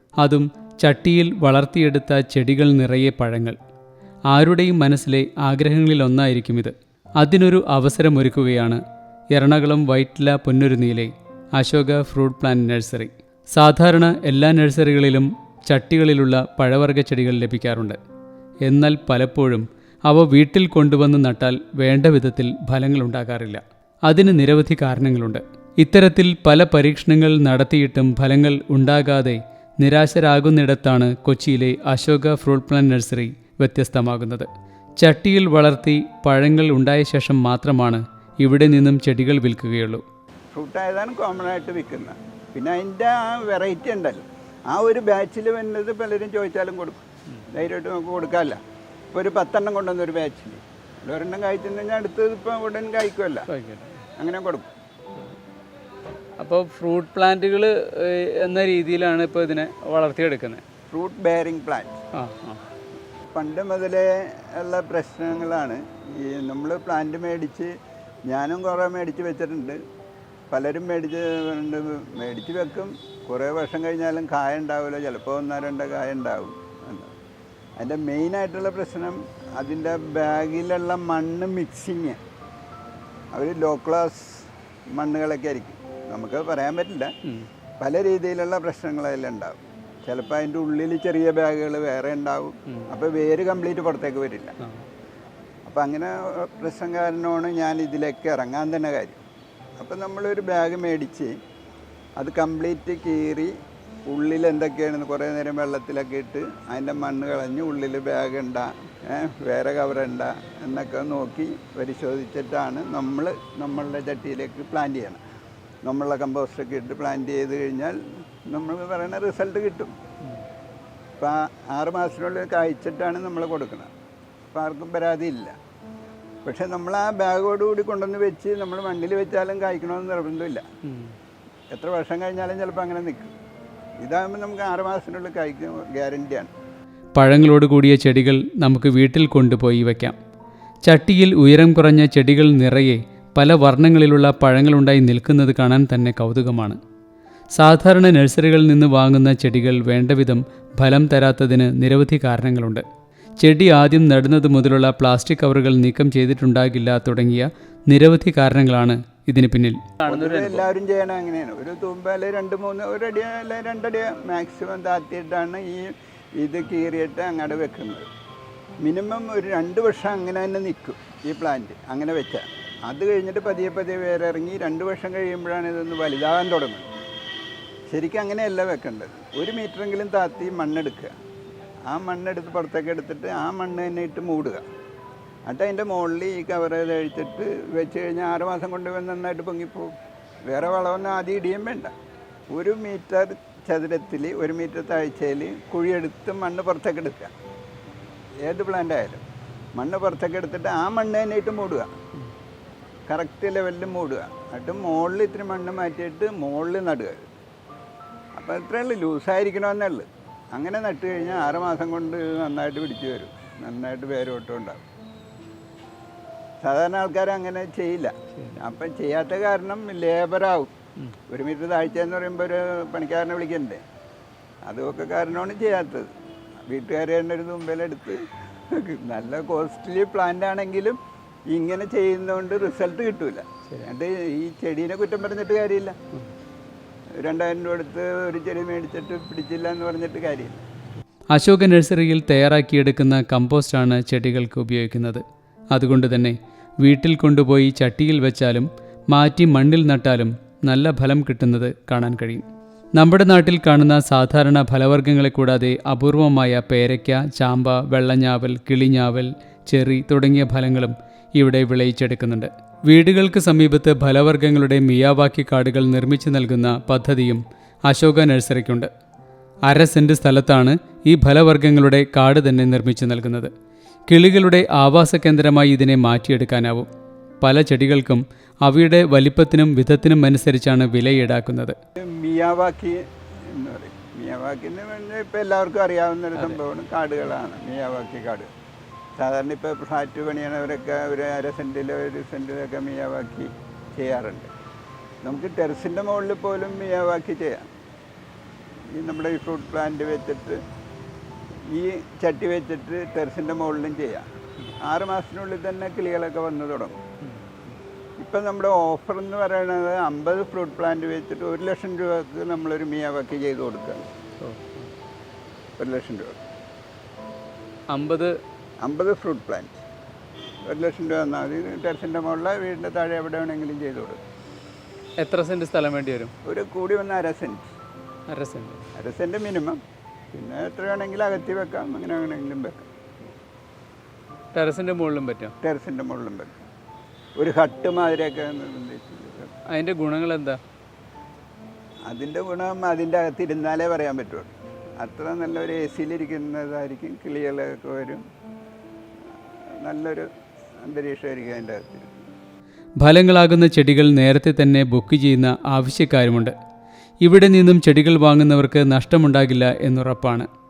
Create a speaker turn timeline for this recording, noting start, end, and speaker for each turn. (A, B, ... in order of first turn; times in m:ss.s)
0:00.2-0:03.6 A
0:04.3-0:08.8 A
0:09.3-0:18.0 A
0:18.6-0:34.5 A
0:35.0-0:40.0 A
0:40.5-0:48.6 B
0:49.1-0:53.5 B
0:53.5-0:54.0 A
0:54.2-0:54.7 B
0:56.4-1:00.6 A
1:00.9-1:02.0 B
1:02.2-1:02.6 A
1:03.3-1:07.7 B
1:08.3-1:09.8 B
1:10.5-1:17.1 B
1:17.8-1:22.2 B
1:23.3-1:27.1 B
1:27.8-1:34.6 B
1:34.6-1:34.9 A
1:35.7-1:39.2 B
1:39.8-1:41.4 B
1:42.2-1:43.5 B
1:44.1-1:55.2 B
1:55.8-1:59.9 B
2:01.2-2:03.9 B
2:04.5-2:05.6 B
2:06.4-2:10.6 B
2:10.9-2:11.1 A
2:11.7-2:13.3 B
2:14.0-2:16.5 B
2:17.2-2:20.2 A
2:20.9-2:26.8 A
2:27.6-2:32.8 A
2:33.4-2:40.6 A
2:40.0-2:48.1 B
2:48.8-2:56.9 B
2:57.9-3:01.1 B
3:01.9-3:04.6 B
3:05.5-3:09.9 B
3:10.5-3:11.9 B
3:12.5-3:17.3 B
3:18.5-3:19.2 B
3:19.8-3:21.9 B
3:23.1-3:27.3 B
3:28.4-3:34.8 B
3:36.6-3:40.7 B
3:38.3-3:38.6 A
3:41.3-3:43.8 B
3:44.7-3:46.1 B
3:46.7-3:51.0 B
3:51.5-3:56.0 B
3:57.2-4:00.6 B
4:01.3-4:05.2 A
4:05.7-4:12.4 A
4:13.0-4:28.9 A
4:29.7-4:33.5 A
4:34.1-4:36.9 A
4:37.4-4:41.8 A
4:42.0-4:43.0 B
4:43.5-4:48.5 B
4:49.2-4:54.5 B
4:55.2-4:57.7 B
4:58.9-5:00.6 B
5:01.7-5:04.3 B
5:04.8-5:07.0 B
5:08.2-5:14.1 B
5:14.4-5:14.9 A
5:15.8-5:16.4 B
5:17.9-5:18.3 A
5:18.8-5:19.8 B
5:20.6-5:24.2 B
5:25.2-5:26.3 A
5:26.4-5:27.7 B
5:28.3-5:28.8 A
5:29.0-5:29.8 B
5:30.3-5:32.9 B
5:34.5-5:35.6 A
5:35.6-5:36.6 B
5:37.4-5:39.5 B
5:39.7-5:40.6 A
5:42.1-5:48.2 B
5:49.8-5:50.3 B
5:50.8-5:52.1 B
5:53.0-5:56.5 A
5:57.2-6:00.5 A